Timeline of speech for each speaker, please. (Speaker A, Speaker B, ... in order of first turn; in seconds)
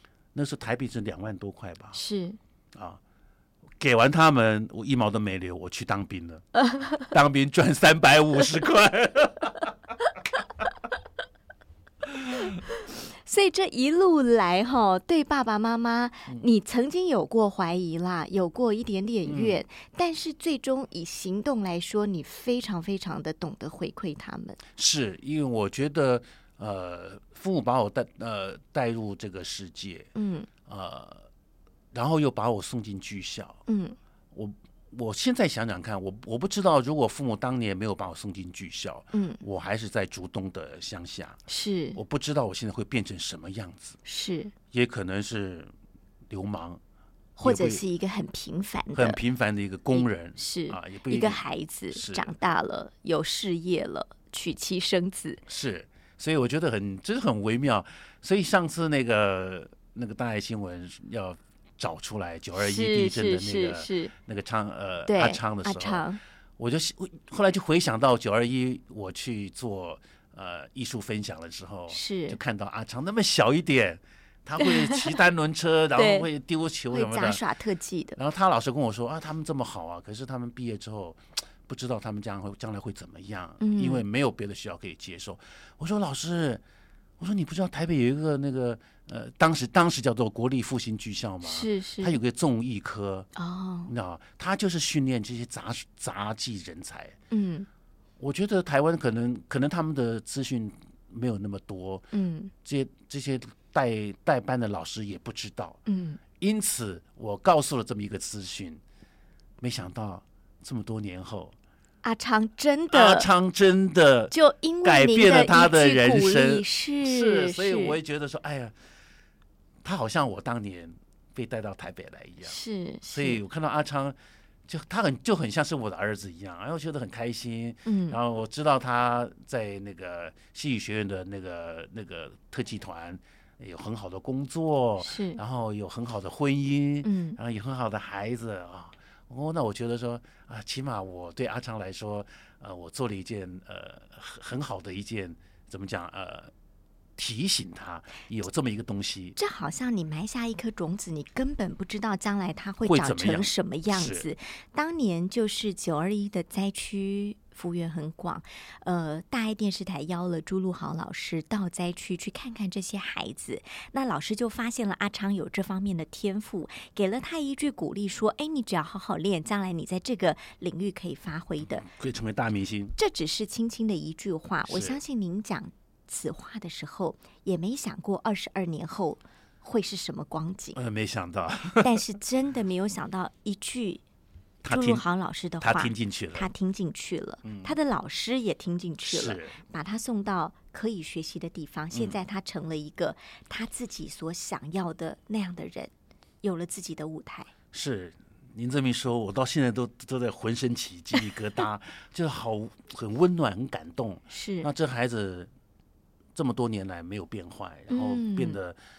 Speaker A: 0.3-2.0, 2.7-3.0, 3.8-9.7, 19.2-19.6, 24.8-30.1, 30.7-31.3, 31.9-33.6, 34.3-41.4, 41.9-44.0, 44.7-45.7, 46.3-46.8, 47.4-47.8, 48.9-52.3, 55.5-66.1, 66.6-77.4, 78.2-86.6, 87.2-93.3, 93.9-97.2, 98.2-102.1, 102.6-105.8, 106.4-108.8, 109.6-111.5, 112.9-118.7, 119.8-124.2, 124.7-146.5, 147.2-149.4, 152.8-154.3, 171.8-172.9, 174.7-175.0, 180.8-182.0, 184.6-185.0, 185.6-186.5, 187.4-187.7, 189.0-189.6, 191.9-192.2, 197.7-205.5, 206.3-208.8
Speaker B: 1.9-2.4, 12.8-24.6, 30.1-30.5, 33.7-34.0, 39.1-39.4, 41.5-42.0, 44.0-44.5, 47.4-49.2, 49.9-55.4, 62.5-64.1, 65.1-66.2, 71.9-72.4, 74.6-75.1, 75.9-76.3, 76.9-78.2, 83.6-84.0, 91.4-92.2, 93.3-93.9, 97.3-97.7, 102.1-102.5, 105.9-106.2, 112.0-113.3, 114.3-118.0, 122.4-123.4, 127.8-128.2, 135.0-135.4, 137.0-137.4, 149.4-171.9, 173.0-180.8, 181.8-184.0, 184.6-195.9, 196.4-197.5, 204.3-204.7, 207.9-208.6